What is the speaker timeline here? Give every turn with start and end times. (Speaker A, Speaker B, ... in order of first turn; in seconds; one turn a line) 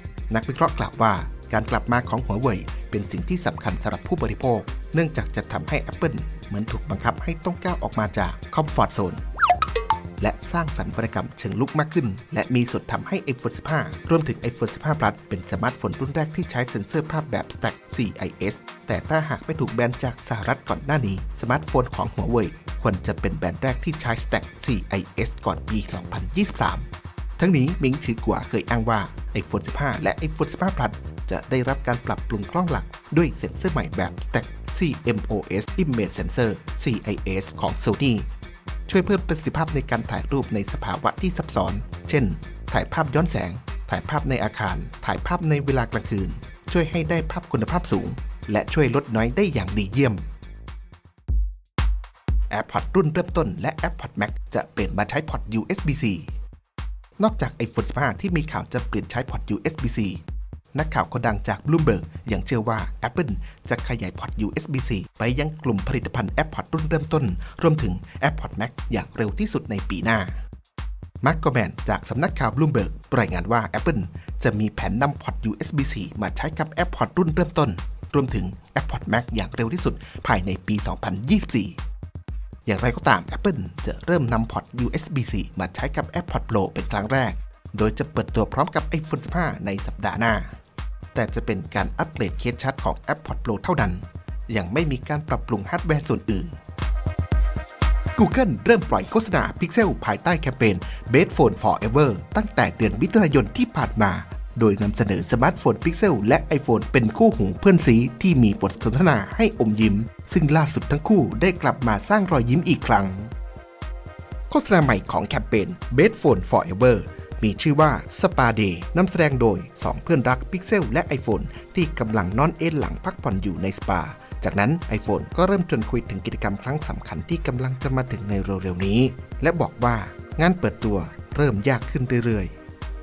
Speaker A: 0.3-9.2
Speaker A: 10.2-38.3
Speaker A: 38.9-50.2
Speaker A: 52.5-56.3
Speaker A: 57.2-60.2
Speaker A: 60.7-70.4
Speaker A: 71.2-81.8
Speaker A: 82.7-90.5
Speaker A: 91.1-96.5
Speaker A: 98.2-113.3
Speaker A: 114.5-132.5